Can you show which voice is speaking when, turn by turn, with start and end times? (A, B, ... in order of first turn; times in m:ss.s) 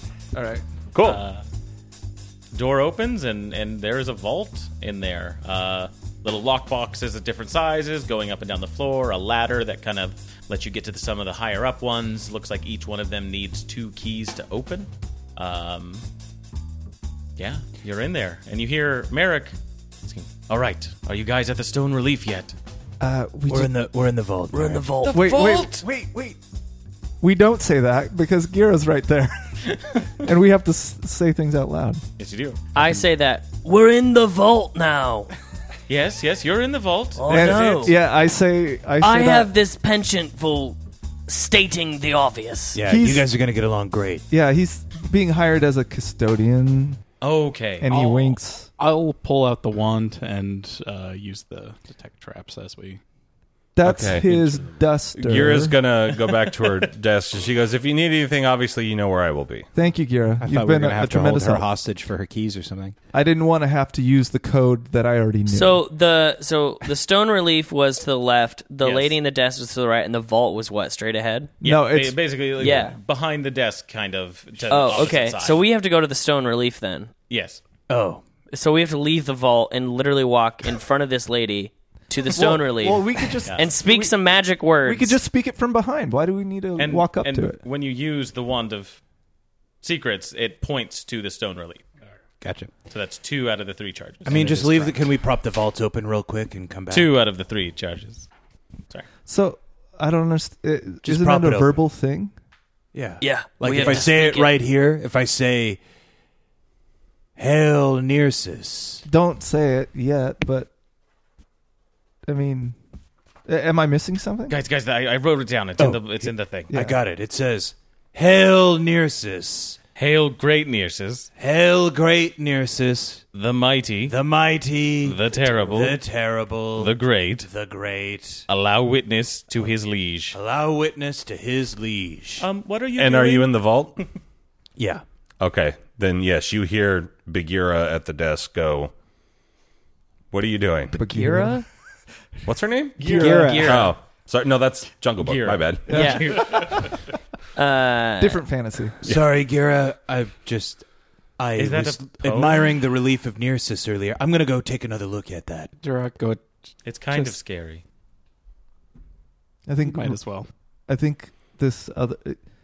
0:00.3-0:00.6 A
0:00.9-0:01.2 B
0:01.0-0:01.4 C
0:02.5-0:16.0 C
0:17.4-0:22.6 C
0:23.0-0:23.7 A
0:23.5-0:24.8 D
0:24.5-0:25.3 E
0:25.0-0:25.8 C
0:25.1-0:26.4 A
0:27.2-0:32.0 A
0:32.2-0:32.6 C
0:32.7-0:35.3 E
0:35.9-0:37.8 C
0:37.2-0:38.0 E
0:37.3-0:39.5 A
0:39.0-0:42.8 E
0:42.8-0:44.2 D
0:42.8-0:43.3 A
0:44.3-0:47.0 A
0:47.2-0:48.4 C
0:47.8-0:48.7 A
0:48.8-0:53.0 F
0:53.8-0:55.8 A
0:53.8-0:54.6 B
0:55.1-0:59.7 B
0:59.7-1:01.6 A
1:00.4-1:02.9 G
1:03.1-1:05.8 A
1:05.5-1:11.5 E
1:08.8-1:09.1 C
1:11.6-1:12.8 A
1:11.6-1:15.6 C
1:12.6-1:12.9 E
1:14.7-1:17.1 E
1:17.3-1:17.6 C
1:17.9-1:18.2 D
1:18.5-1:25.2 E
1:22.2-1:24.2 A
1:24.8-1:27.6 A
1:26.8-1:29.0 C
1:29.8-1:31.8 C
1:32.4-1:32.7 G
1:32.9-1:35.0 C
1:34.3-1:34.9 G
1:34.3-1:37.1 D
1:36.9-1:38.3 C
1:39.3-1:42.3 A
1:41.2-1:41.8 D
1:42.9-1:45.8 D
1:43.2-1:44.5 E
1:43.6-1:44.1 G
1:47.4-1:49.0 D
1:49.0-1:50.7 A
1:52.2-1:52.8 A
1:53.4-1:54.6 A
1:54.5-1:56.7 C
1:55.8-1:59.8 D
1:56.7-1:57.0 A
2:00.0-2:01.3 C
2:01.4-2:03.2 D
2:03.3-2:04.2 C
2:04.1-2:08.4 D
2:05.0-2:06.0 C
2:06.8-2:07.5 C
2:08.5-2:10.4 C
2:10.3-2:12.4 D
2:12.4-2:14.0 C
2:13.0-2:14.0 B
2:15.4-2:18.9 B
2:20.3-2:21.0 B
2:20.9-2:21.6 A
2:21.0-2:21.6 E
2:22.4-2:26.0 B
2:23.0-2:23.7 A
2:23.0-2:23.9 E
2:23.1-2:23.7 G
2:25.2-2:27.0 C
2:25.9-2:26.8 A
2:25.9-2:26.6 E
2:27.5-2:28.4 E
2:28.2-2:29.0 A
2:29.1-2:30.8 D
2:31.4-2:35.7 D
2:31.6-2:32.8 C
2:35.8-2:36.4 F
2:36.8-2:37.8 C
2:39.6-2:40.2 A
2:39.8-2:40.5 F
2:40.9-2:42.4 A